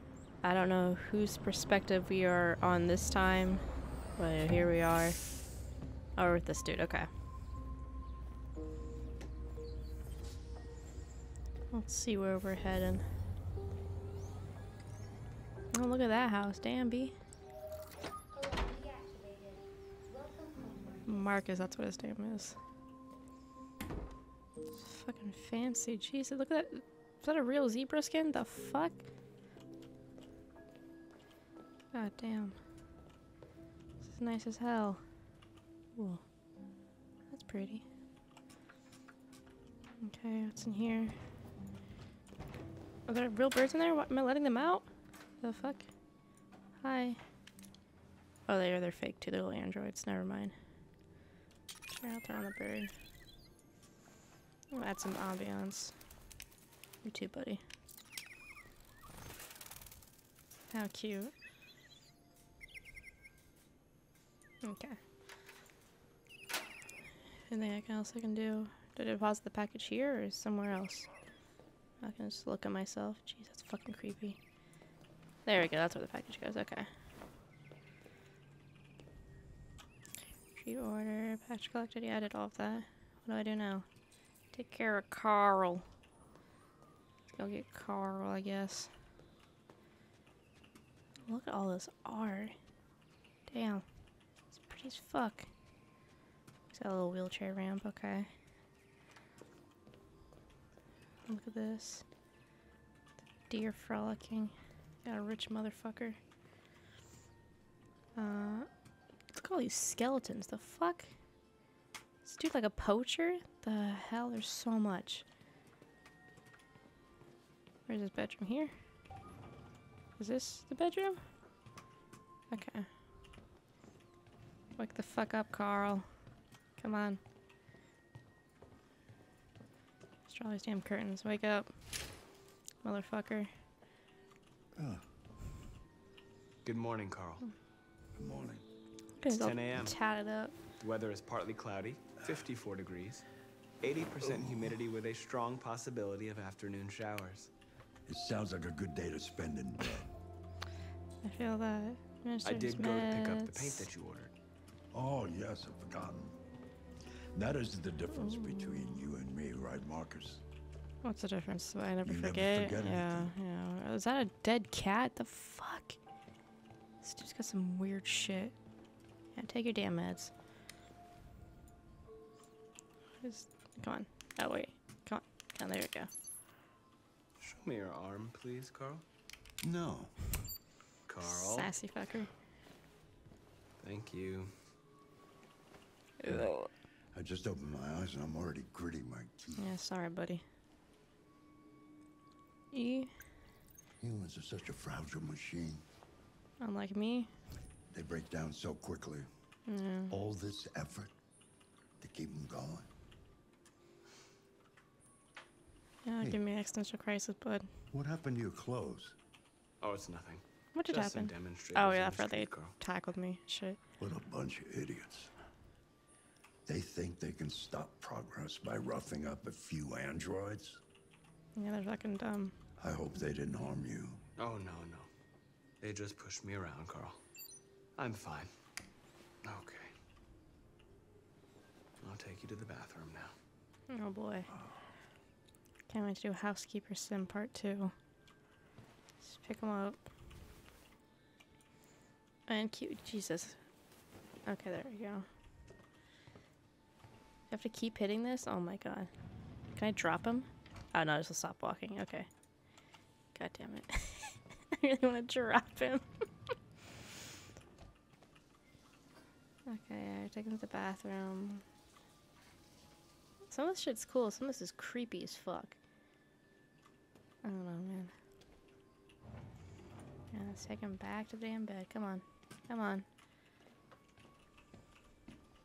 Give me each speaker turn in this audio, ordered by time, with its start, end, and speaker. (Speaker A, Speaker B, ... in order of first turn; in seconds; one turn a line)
Speaker A: 0.4-3.6
Speaker A: 4.2-5.2
Speaker A: 6.2-7.1
Speaker A: 11.7-13.1
Speaker A: 15.7-17.2
Speaker A: 21.1-22.6
Speaker A: 24.8-29.1
Speaker A: 31.9-32.6
Speaker A: 34.0-35.0
Speaker A: 36.0-36.2
Speaker A: 37.3-37.9
Speaker A: 40.0-41.2
Speaker A: 43.1-44.9
Speaker A: 45.4-45.9
Speaker A: 46.8-47.2
Speaker A: 48.5-50.5
Speaker A: 51.9-52.9
Speaker A: 54.7-56.0
Speaker A: 57.0-57.6
Speaker A: 60.7-61.3
Speaker A: 64.6-65.0
Speaker A: 67.5-71.1
Speaker A: 72.0-74.4
Speaker A: 75.5-76.9
Speaker A: 80.5-83.9
Speaker A: 84.5-85.9
Speaker A: 87.4-88.9
Speaker A: 91.3-92.5
Speaker A: 93.5-93.8
Speaker A: 94.6-95.5
Speaker A: 96.7-98.3
Speaker A: 101.3-102.0
Speaker A: 103.5-104.5
Speaker A: 105.0-106.2
Speaker A: 108.2-108.7
Speaker A: 109.3-111.1
Speaker A: 112.2-115.2
Speaker A: 117.9-118.7
Speaker A: 120.2-121.2
Speaker A: 122.5-122.9
Speaker A: 124.8-126.1
Speaker A: 126.8-127.2
Speaker A: 130.3-131.7
Speaker A: 132.8-133.5
Speaker B: 134.8-135.0
Speaker C: 136.6-137.4
Speaker B: 138.2-138.6
Speaker A: 139.2-140.5
Speaker C: 139.3-140.0
Speaker C: 140.8-143.3
Speaker C: 143.8-147.5
Speaker B: 148.1-150.1
Speaker A: 151.2-153.9
Speaker C: 152.4-154.3
Speaker B: 154.9-156.4
Speaker B: 157.2-160.4
Speaker A: 158.2-159.0
Speaker A: 161.0-166.0
Speaker B: 162.0-163.3
Speaker A: 167.0-168.6
Speaker A: 169.3-170.3
Speaker A: 173.2-176.1
Speaker C: 177.4-179.0
Speaker B: 179.6-180.2
Speaker C: 181.1-181.7
Speaker A: 181.2-182.3
Speaker C: 183.8-184.5
Speaker A: 186.2-186.7
Speaker B: 187.1-189.7
Speaker A: 189.6-190.4
Speaker A: 192.7-193.1
Speaker B: 194.0-195.8
Speaker A: 196.6-197.3
Speaker B: 197.9-199.3
Speaker A: 199.7-200.2
Speaker B: 200.1-201.1
Speaker B: 202.0-202.9
Speaker A: 206.1-207.7
Speaker B: 207.9-209.2
Speaker C: 209.8-212.8
Speaker A: 210.8-213.8
Speaker B: 214.0-215.3
Speaker B: 216.7-220.8
Speaker A: 221.6-222.6
Speaker B: 222.8-224.2
Speaker C: 224.4-225.1
Speaker C: 225.8-227.2
Speaker C: 228.0-228.5
Speaker C: 229.4-229.9
Speaker C: 232.0-233.3
Speaker A: 233.9-234.5
Speaker B: 234.5-234.8
Speaker A: 235.9-237.9
Speaker A: 239.2-240.0
Speaker A: 242.5-243.6
Speaker A: 244.5-245.3
Speaker A: 247.5-249.1
Speaker A: 249.7-252.3
Speaker A: 253.3-256.1
Speaker A: 259.7-261.6
Speaker A: 263.5-265.8
Speaker A: 267.4-268.1
Speaker A: 270.3-273.1